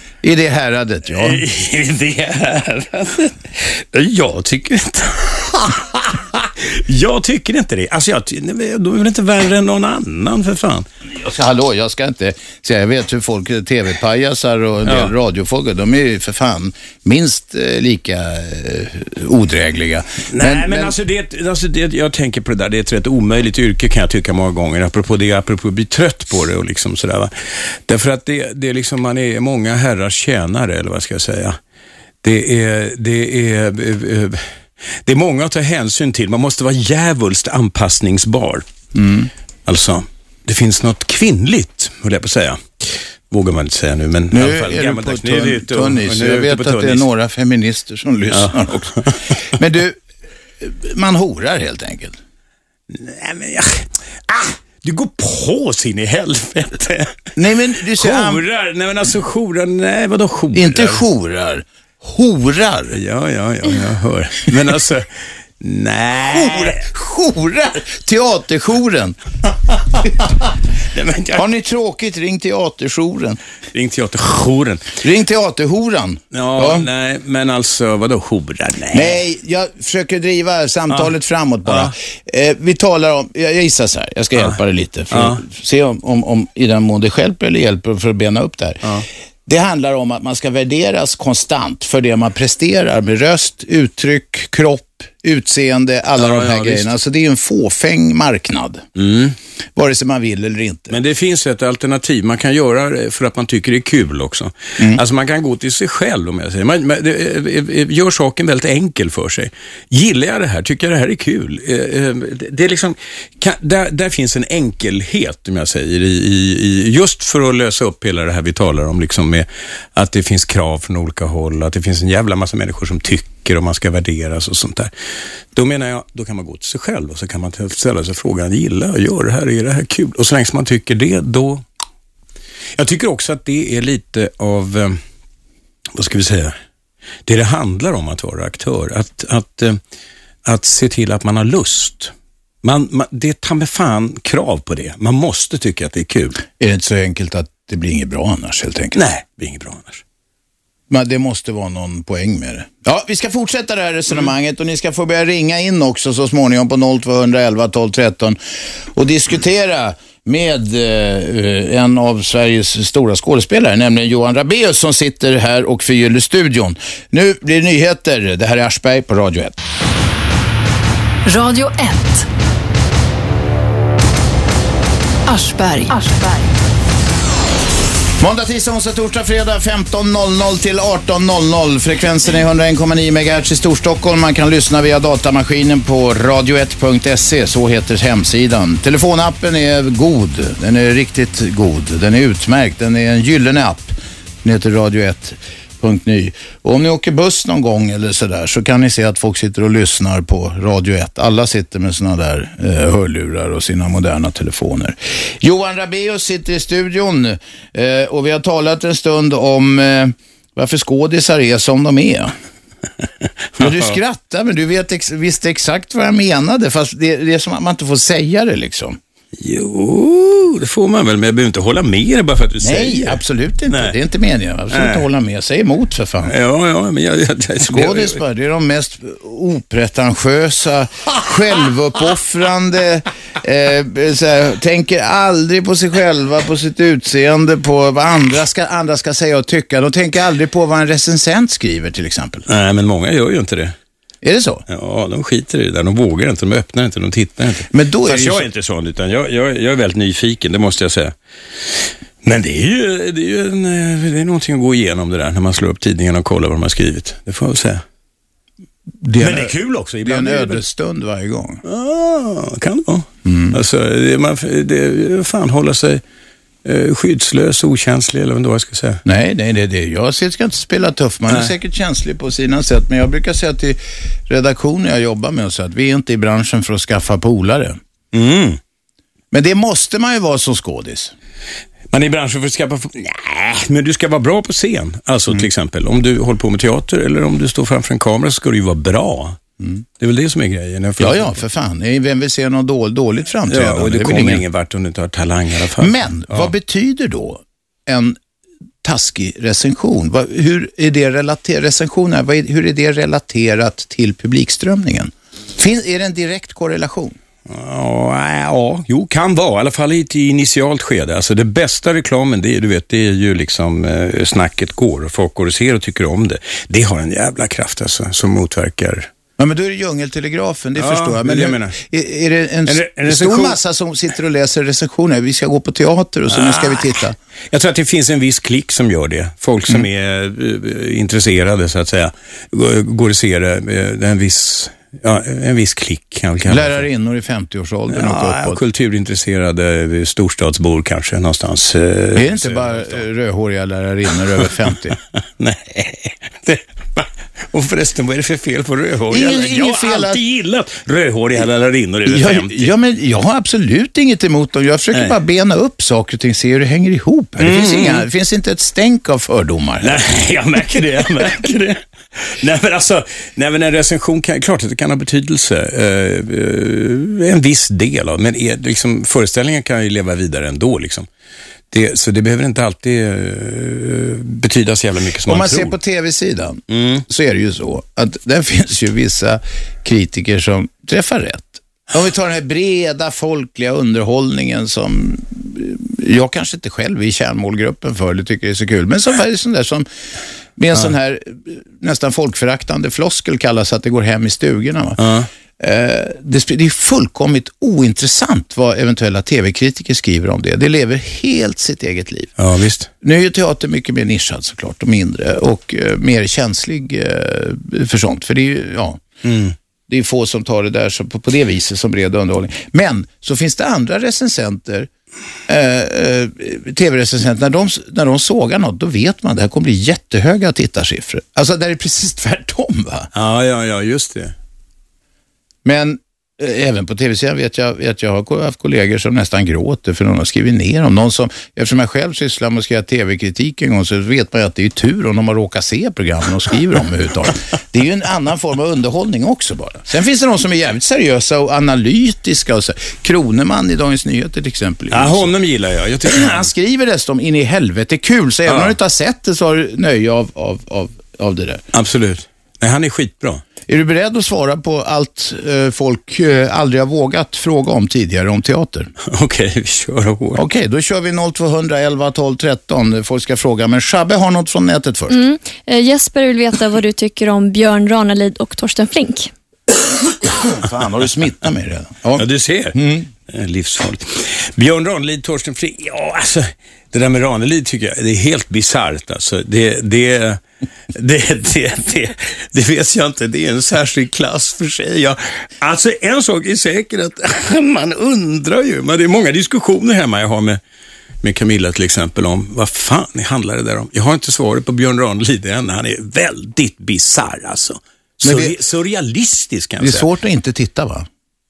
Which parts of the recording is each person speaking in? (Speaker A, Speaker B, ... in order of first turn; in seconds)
Speaker A: 0.2-1.4, 11.1-21.0, 38.9-39.3, 44.3-49.0, 49.5-50.0, 50.6-52.2, 57.4-58.4, 60.5-63.0, 66.3-69.2, 71.3-73.4, 75.0-76.9, 78.9-88.8, 89.5-98.8, 99.8-101.0, 146.6-149.0, 150.9-158.4, 158.9-169.6, 178.2-212.3, 213.6-219.0, 222.6-226.3, 227.6-242.4, 244.2-244.6, 247.7-248.5, 259.0-259.5, 260.1-261.6, 263.2-263.6, 269.1-277.8, 279.3-281.1, 291.0-294.4, 295.8-298.2, 298.8-307.2, 319.4-327.2, 336.5-338.6, 342.1-345.0, 349.1-350.2, 352.1-360.0, 375.3-389.9, 390.6-395.0, 395.6-402.3, 403.0-409.0, 409.9-414.9, 415.5-423.1, 425.6-445.3, 446.1-451.6, 453.7-458.9, 460.4-465.2, 470.4-473.1, 498.2-498.5, 499.8-501.1
Speaker B: 1.1-10.9, 14.9-15.1, 20.3-31.6, 32.2-34.4, 35.0-38.6, 39.7-47.1, 48.3-49.1, 52.9-57.2, 58.0-61.0, 62.9-65.1, 65.6-66.8, 70.9-71.4, 73.7-75.0, 76.3-79.2, 81.7-81.9, 85.1-85.4, 96.2-96.9, 99.0-99.4, 100.9-124.9, 125.5-131.7, 132.8-135.0, 135.9-136.6, 137.3-139.8, 140.4-146.4, 148.9-150.0, 213.6-214.0, 219.4-223.9, 224.7-225.1, 226.2-228.2, 242.5-243.8, 244.7-257.8, 259.2-260.6, 261.6-266.0, 266.6-269.0, 271.3-271.5, 278.1-278.6, 281.9-289.4, 290.0-291.4, 293.5-296.5, 307.5-319.1, 320.8-321.8, 322.7-323.6, 326.3-326.9, 327.5-336.9, 337.9-343.0, 345.4-352.7, 357.4-358.1, 359.8-371.1, 371.7-375.8, 376.7-377.1, 395.0-395.3, 402.4-402.9, 409.2-409.5, 423.1-424.3, 444.9-446.5, 448.5-448.8, 451.7-453.4, 459.0-460.4, 472.2-472.8, 473.3-480.4, 480.9-490.6, 491.2-500.1
Speaker C: 171.2-172.3, 175.3-176.6
Speaker D: 465.1-469.3